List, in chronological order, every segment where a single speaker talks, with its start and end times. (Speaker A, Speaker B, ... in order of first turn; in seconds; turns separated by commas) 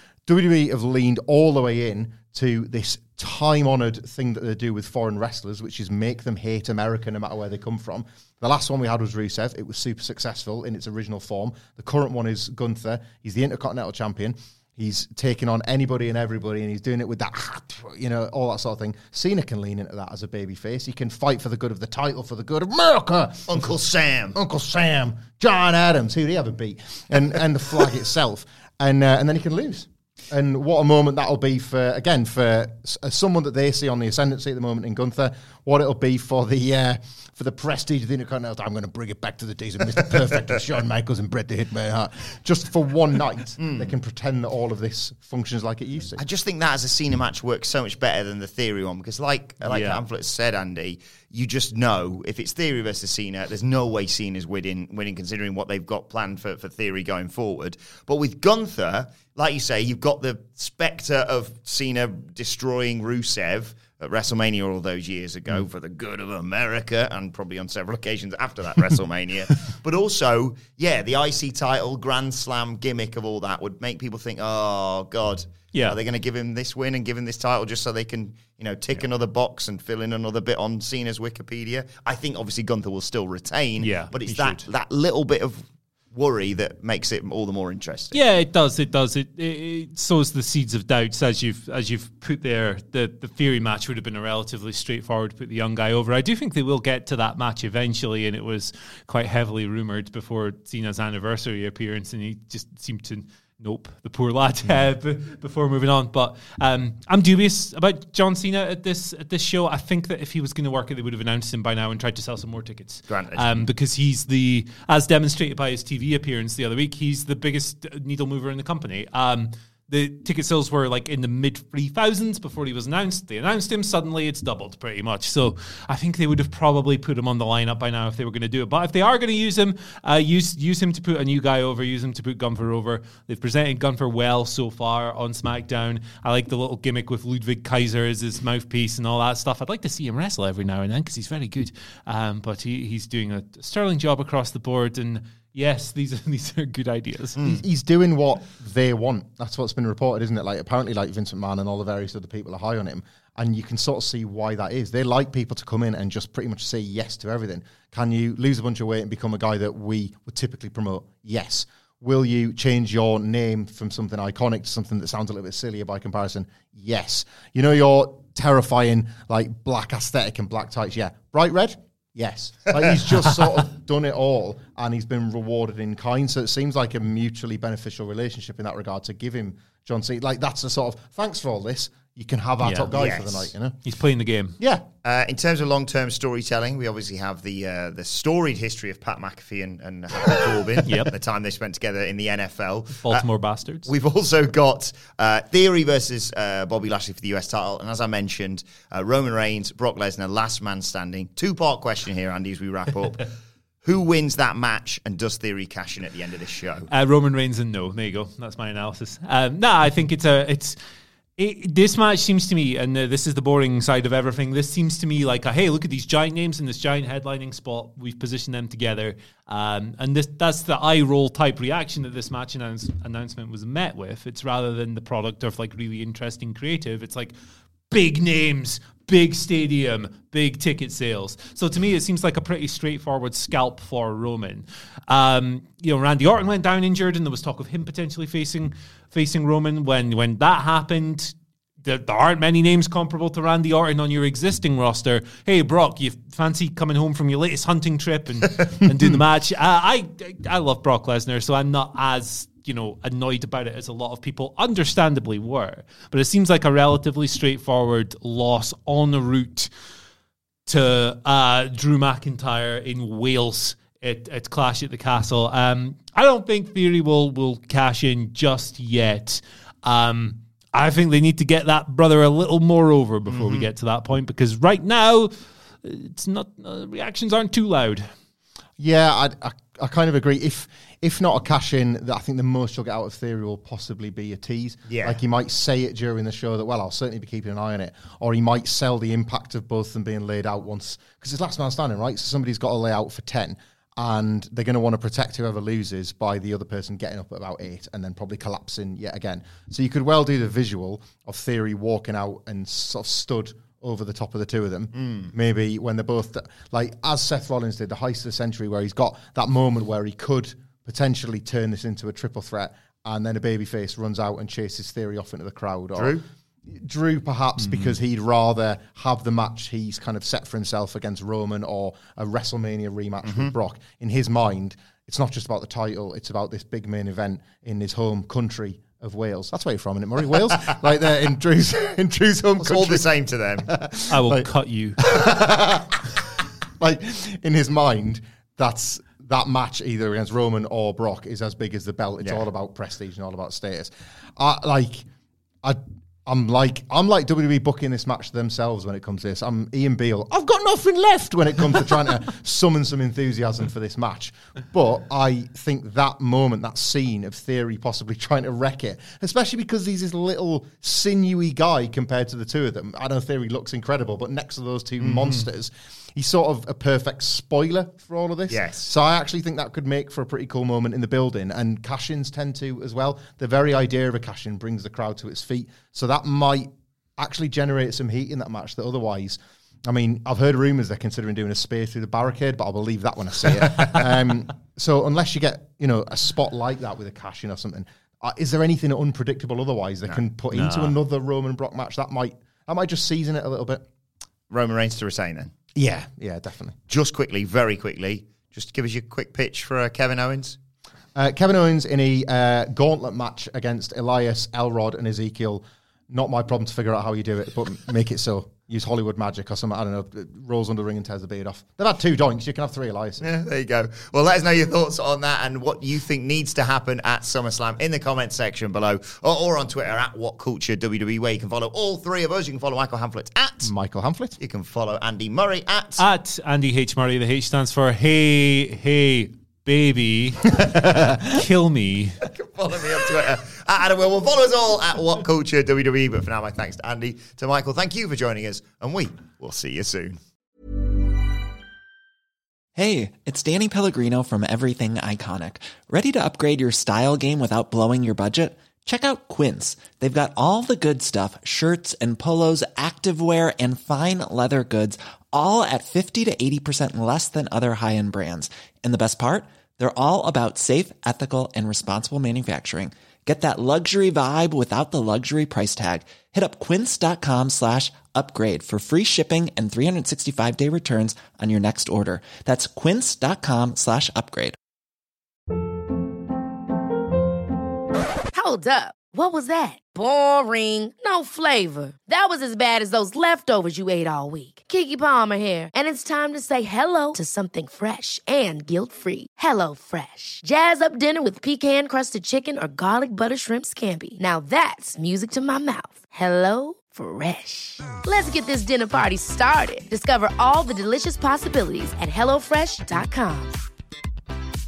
Speaker A: 0.3-23.7, Speaker B: 23.5-24.4, Speaker A: 24.3-46.2, Speaker B: 43.6-43.9, Speaker B: 46.2-85.6, Speaker C: 49.7-50.0, Speaker C: 83.8-84.6, Speaker B: 86.1-88.2, Speaker C: 88.1-147.6, Speaker B: 113.1-113.7, Speaker A: 147.4-183.8, Speaker C: 182.6-183.0, Speaker B: 183.0-183.6, Speaker C: 183.8-184.6, Speaker A: 184.6-184.9, Speaker B: 185.0-193.3, Speaker C: 190.8-191.1, Speaker C: 193.0-193.9, Speaker B: 193.8-203.3, Speaker B: 203.8-206.9, Speaker C: 206.9-210.8, Speaker C: 211.4-227.3, Speaker C: 227.9-259.7, Speaker C: 260.7-275.3, Speaker B: 273.3-273.7, Speaker C: 275.8-278.1, Speaker A: 278.8-336.1, Speaker B: 284.9-285.2, Speaker B: 304.9-305.3, Speaker B: 316.0-316.2, Speaker B: 323.2-323.5, Speaker B: 332.6-333.7, Speaker C: 334.1-335.0, Speaker A: 336.8-345.1, Speaker B: 342.2-342.5, Speaker A: 345.6-393.9, Speaker B: 365.0-365.5, Speaker B: 368.5-368.9, Speaker B: 390.0-391.0, Speaker B: 394.5-395.5, Speaker A: 395.8-396.8, Speaker B: 396.9-400.6, Speaker A: 401.1-413.2, Speaker B: 413.2-423.7, Speaker A: 423.6-424.4, Speaker B: 424.4-426.1, Speaker C: 426.0-432.2, Speaker B: 432.2-440.2, Speaker D: 442.8-474.6, Speaker E: 478.3-503.6